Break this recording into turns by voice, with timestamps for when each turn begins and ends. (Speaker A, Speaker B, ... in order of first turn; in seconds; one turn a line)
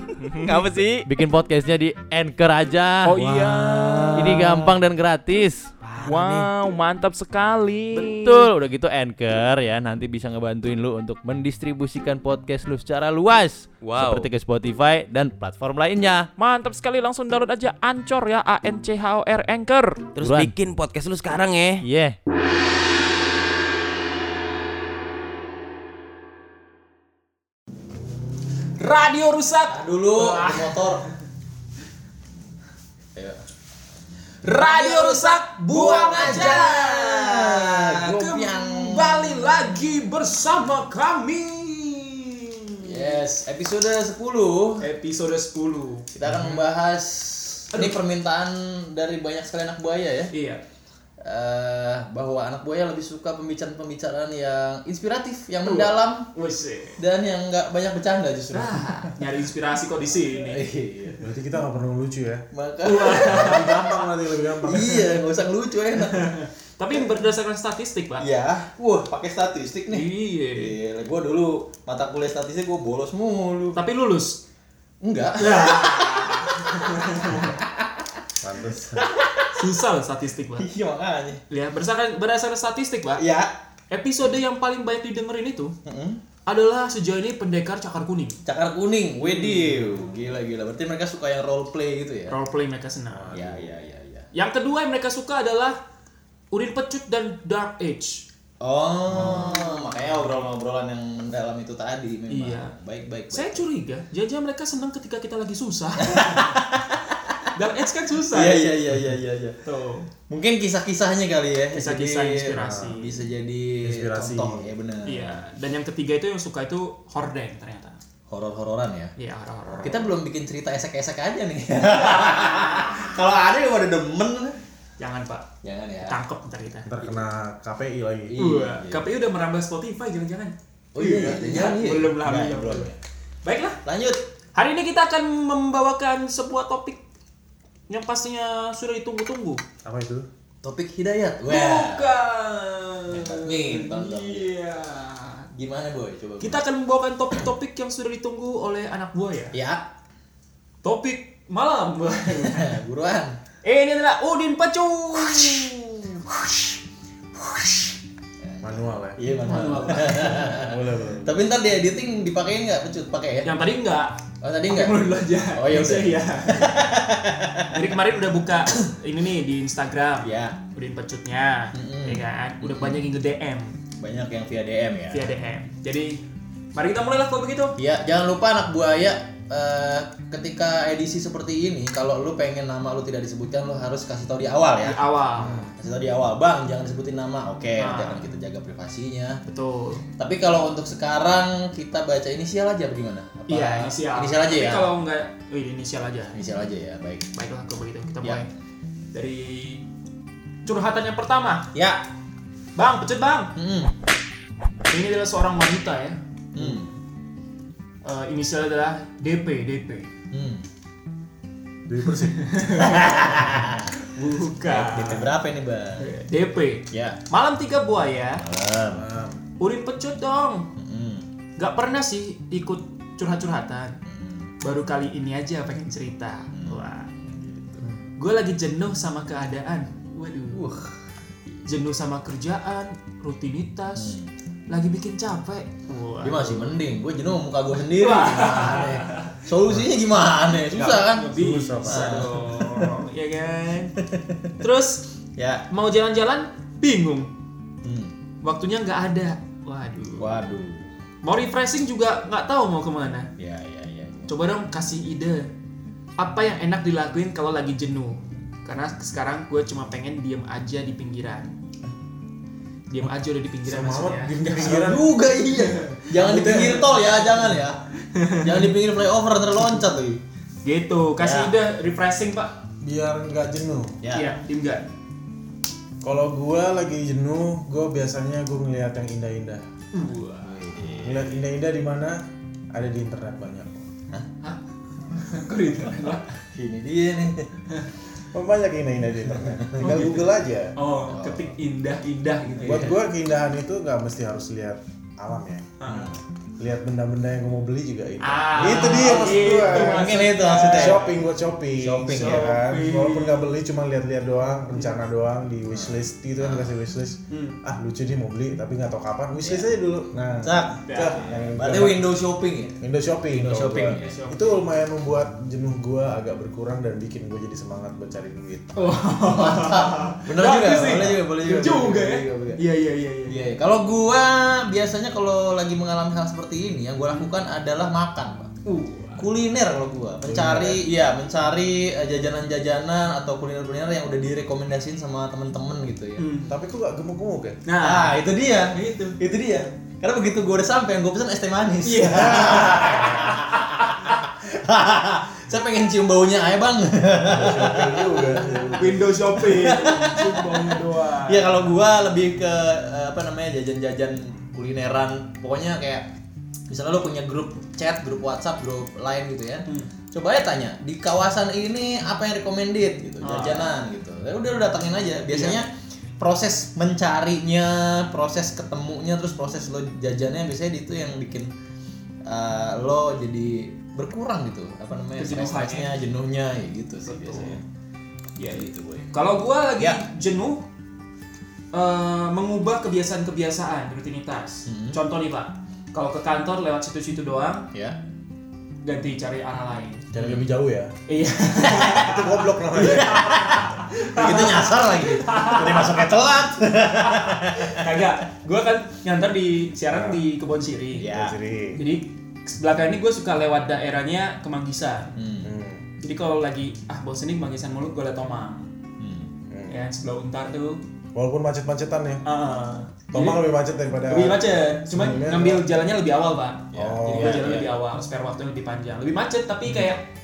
Speaker A: 0.1-5.7
Speaker B: 3.1-3.5
Speaker C: 3.1-4.7
Speaker D: 5.8-6.5
Speaker C: 6.0-8.5
Speaker A: 8.0-16.3
Speaker D: 13.8-14.3
Speaker C: 16.4-20.1
Speaker A: 20.2-20.6
Speaker D: 20.2-21.8
Speaker A: 21.8-22.2
Speaker B: 28.8-30.9
Speaker E: 29.7-31.0
Speaker B: 34.4-43.1
Speaker E: 34.5-39.1
Speaker E: 42.8-44.9
Speaker B: 44.8-46.1
Speaker E: 46.1-50.3
Speaker F: 46.2-46.6
Speaker B: 47.7-48.0
Speaker B: 50.3-50.6
Speaker E: 51.2-56.3
Speaker B: 55.6-57.0
Speaker E: 57.0-59.1
Speaker B: 58.5-60.6
Speaker E: 60.4-61.2
Speaker F: 61.2-62.5
Speaker E: 62.5-64.0
Speaker B: 62.8-63.9
Speaker F: 63.1-65.2
Speaker E: 64.7-66.3
Speaker B: 66.2-68.3
Speaker E: 68.2-73.8
Speaker B: 69.9-70.8
Speaker B: 73.8-74.4
Speaker E: 75.0-78.1
Speaker B: 75.4-77.5
Speaker F: 78.4-79.1
Speaker E: 78.9-79.5
Speaker B: 79.6-80.7
Speaker E: 80.6-81.4
Speaker B: 81.5-83.2
Speaker E: 83.2-83.5
Speaker B: 83.9-85.8
Speaker E: 85.8-86.2
Speaker B: 86.5-88.4
Speaker E: 88.5-92.4
Speaker B: 89.2-89.9
Speaker B: 92.3-93.5
Speaker F: 93.1-93.9
Speaker E: 93.3-94.3
Speaker B: 94.3-95.8
Speaker B: 96.5-98.3
Speaker E: 98.6-103.7
Speaker F: 99.1-99.5
Speaker B: 99.2-99.8
Speaker B: 102.3-102.7
Speaker B: 103.3-106.4
Speaker E: 106.0-107.0
Speaker B: 107.5-108.7
Speaker E: 108.3-109.6
Speaker B: 109.6-110.1
Speaker E: 110.3-115.4
Speaker B: 111.7-113.1
Speaker F: 112.6-113.0
Speaker F: 113.8-114.7
Speaker B: 115.1-118.0
Speaker E: 118.3-119.1
Speaker B: 119.2-120.0
Speaker E: 119.8-124.6
Speaker B: 121.9-122.8
Speaker B: 125.0-125.5
Speaker E: 125.6-126.2
Speaker B: 126.0-126.9
Speaker F: 126.9-128.3
Speaker E: 128.3-129.0
Speaker B: 128.4-132.9
Speaker E: 130.9-133.0
Speaker B: 133.4-133.8
Speaker E: 133.8-134.2
Speaker B: 134.6-137.0
Speaker B: 137.9-139.6
Speaker F: 139.8-140.3
Speaker E: 140.6-142.1
Speaker B: 141.5-145.5
Speaker E: 143.1-144.5
Speaker E: 145.6-146.6
Speaker B: 146.4-149.6
Speaker E: 149.5-149.8
Speaker B: 150.8-152.8
Speaker E: 152.4-153.4
Speaker B: 153.6-156.8
Speaker B: 157.4-157.9
Speaker E: 158.4-163.5
Speaker F: 158.6-159.2
Speaker B: 159.4-160.6
Speaker F: 160.4-161.4
Speaker B: 163.4-166.7
Speaker E: 164.4-167.8
Speaker B: 167.7-173.8
Speaker E: 170.2-170.6
Speaker E: 171.7-173.0
Speaker E: 174.0-175.3
Speaker B: 175.1-176.2
Speaker B: 176.8-177.8
Speaker E: 177.8-185.0
Speaker B: 184.8-185.7
Speaker F: 185.4-185.7
Speaker E: 185.7-189.4
Speaker B: 187.8-188.3
Speaker B: 189.5-190.0
Speaker E: 190.2-194.9
Speaker B: 193.5-196.4
Speaker E: 196.3-197.3
Speaker B: 197.3-198.5
Speaker B: 199.1-199.8
Speaker B: 200.7-201.7
Speaker E: 201.7-202.0
Speaker B: 202.8-203.5
Speaker E: 203.6-203.9
Speaker B: 204.9-206.9
Speaker E: 206.6-206.9
Speaker B: 208.0-210.1
Speaker E: 210.3-210.6
Speaker F: 211.9-212.6
Speaker B: 212.2-213.2
Speaker E: 212.8-213.9
Speaker B: 214.0-215.3
Speaker E: 214.7-216.1
Speaker B: 216.0-218.4
Speaker E: 216.9-217.2
Speaker E: 218.4-219.0
Speaker F: 218.9-219.4
Speaker B: 219.6-220.7
Speaker E: 220.8-221.2
Speaker B: 221.6-224.0
Speaker E: 224.1-224.4
Speaker B: 224.6-227.1
Speaker E: 226.5-227.8
Speaker B: 228.2-230.8
Speaker E: 230.5-230.9
Speaker B: 231.6-234.2
Speaker E: 234.0-234.3
Speaker B: 234.7-236.8
Speaker E: 236.2-241.3
Speaker B: 238.0-239.4
Speaker B: 240.6-244.0
Speaker F: 240.8-242.3
Speaker E: 241.9-242.9
Speaker B: 244.6-245.1
Speaker E: 245.4-245.6
Speaker B: 245.7-247.3
Speaker E: 247.8-248.1
Speaker B: 248.4-250.4
Speaker E: 250.2-250.9
Speaker B: 251.2-253.3
Speaker E: 253.4-254.3
Speaker B: 254.3-255.5
Speaker B: 256.2-261.5
Speaker B: 262.9-264.8
Speaker F: 263.6-265.0
Speaker E: 264.5-267.8
Speaker B: 265.6-266.0
Speaker F: 266.2-267.6
Speaker B: 268.1-268.7
Speaker E: 268.4-270.2
Speaker B: 270.6-272.6
Speaker E: 271.2-271.5
Speaker F: 272.8-274.0
Speaker E: 274.0-274.3
Speaker B: 274.1-274.9
Speaker F: 276.0-279.6
Speaker B: 279.9-280.6
Speaker E: 280.4-281.3
Speaker F: 281.0-283.9
Speaker B: 285.1-286.3
Speaker E: 286.0-287.5
Speaker F: 288.3-290.7
Speaker B: 289.8-292.8
Speaker E: 291.1-291.5
Speaker E: 292.4-293.0
Speaker F: 292.6-295.7
Speaker B: 295.8-296.1
Speaker E: 295.9-296.2
Speaker F: 296.6-312.1
Speaker B: 298.2-301.2
Speaker E: 298.7-301.0
Speaker B: 301.8-303.5
Speaker E: 301.9-302.5
Speaker E: 305.7-306.7
Speaker B: 307.3-307.6
Speaker E: 310.4-314.1
Speaker B: 310.8-311.5
Speaker F: 312.8-319.0
Speaker B: 313.9-314.7
Speaker B: 318.8-323.5
Speaker E: 319.2-322.6
Speaker E: 323.3-328.5
Speaker B: 328.6-329.3
Speaker E: 329.2-336.2
Speaker F: 330.2-330.8
Speaker B: 336.2-336.6
Speaker F: 336.5-337.6
Speaker B: 337.7-339.2
Speaker E: 337.8-348.6
Speaker B: 341.8-343.9
Speaker F: 342.2-342.6
Speaker F: 347.2-349.1
Speaker B: 348.8-351.7
Speaker E: 349.4-356.1
Speaker E: 356.7-371.5
Speaker B: 359.7-359.9
Speaker B: 363.2-363.8
Speaker B: 365.3-365.6
Speaker E: 372.2-377.6
Speaker B: 375.2-375.9
Speaker B: 377.1-377.6
Speaker B: 378.4-380.6
Speaker E: 378.4-379.1
Speaker B: 381.7-387.7
Speaker E: 384.7-385.0
Speaker B: 388.8-390.0
Speaker F: 390.1-390.9
Speaker E: 390.2-390.5
Speaker B: 391.1-396.1
Speaker E: 391.7-392.0
Speaker F: 391.9-393.3
Speaker E: 392.7-398.1
Speaker B: 397.0-401.1
Speaker F: 399.9-400.2
Speaker E: 401.0-401.4
Speaker F: 401.1-401.8
Speaker B: 401.7-405.1
Speaker E: 405.2-405.5
Speaker F: 405.4-405.8
Speaker B: 406.0-408.7
Speaker E: 409.0-409.3
Speaker F: 409.5-409.8
Speaker B: 409.7-410.8
Speaker F: 411.1-412.3
Speaker B: 412.2-413.5
Speaker F: 413.1-415.6
Speaker B: 414.1-420.1
Speaker E: 416.7-417.7
Speaker F: 416.8-417.6